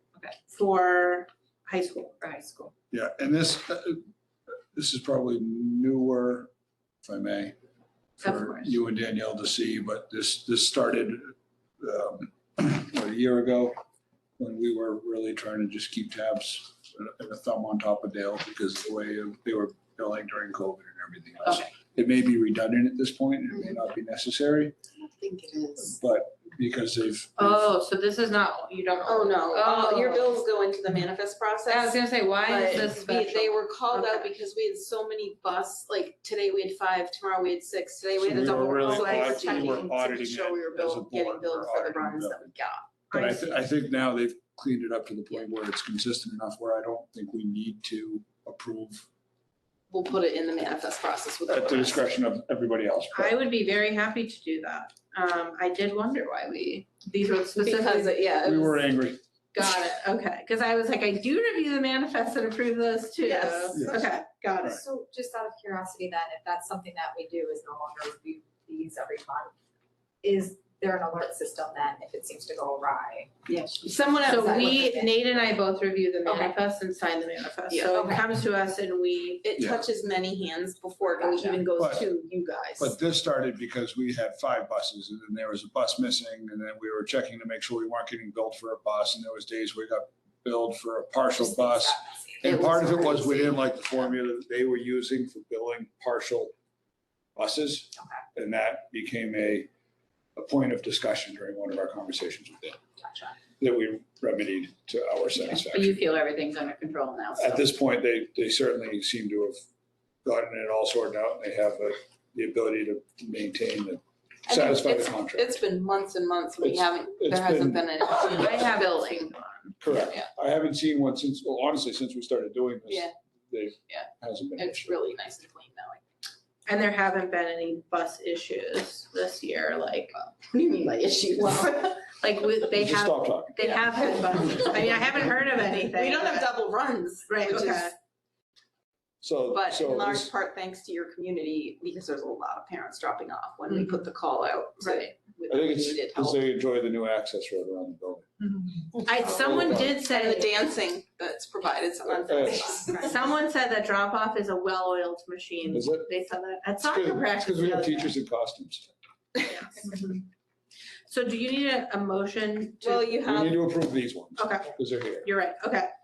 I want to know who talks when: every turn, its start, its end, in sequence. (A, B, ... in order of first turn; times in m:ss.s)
0:00.4-0:02.2 A
0:02.2-0:02.7 B
0:02.9-0:04.0 C
0:04.7-0:06.5 C
0:07.0-0:07.6 C
0:08.2-0:13.8 C
0:08.2-0:08.8 A
0:14.4-0:24.7 C
0:25.0-0:26.0 D
0:26.0-0:27.7 C
0:27.4-0:30.3 A
0:29.0-0:42.9 D
0:31.7-0:34.3 A
0:38.2-0:42.4 C
0:38.8-0:39.8 A
0:43.1-0:43.6 A
0:43.1-0:49.1 C
0:49.9-0:52.1 D
0:51.5-0:53.3 C
0:53.1-0:58.2 A
0:57.6-0:58.8 D
0:58.4-0:59.2 C
0:59.5-1:04.8 A
1:03.2-1:04.1 D
1:03.7-1:04.0 C
1:04.6-1:09.5 E
1:10.2-1:15.3 E
1:13.8-1:14.9 D
1:14.2-1:19.4 A
1:16.3-1:16.6 D
1:17.7-1:18.2 D
1:19.4-1:23.0 D
1:19.6-1:19.8 C
1:21.0-1:21.6 E
1:21.8-1:22.1 C
1:22.8-1:36.5 C
1:31.3-1:33.6 E
1:32.5-1:33.5 D
1:37.4-1:39.7 C
1:40.4-1:42.8 C
1:43.6-1:46.0 C
1:45.6-1:47.7 B
1:47.4-1:49.6 C
1:50.2-1:55.6 C
1:54.5-1:59.3 D
1:56.6-1:58.0 C
1:58.2-2:00.0 A
1:59.8-2:05.0 C
1:59.9-2:00.3 D
2:02.9-2:03.1 D
2:03.9-2:06.0 D
2:06.7-2:10.2 A
2:10.1-2:12.0 D
2:12.1-2:16.5 A
2:12.8-2:13.7 C
2:14.4-2:15.0 D
2:15.6-2:17.9 D
2:17.3-2:18.0 A
2:19.2-2:20.3 C
2:19.5-2:26.4 D
2:24.8-2:25.1 A
2:25.5-2:28.5 C
2:29.0-2:30.5 A
2:29.2-2:30.0 C
2:29.6-2:33.3 D
2:32.1-2:32.9 C
2:33.0-2:38.2 A
2:35.7-2:36.1 C
2:36.8-2:38.9 C
2:39.4-2:40.2 A
2:41.1-2:43.1 A
2:42.8-2:43.6 D
2:43.2-2:45.3 C
2:44.4-2:45.9 A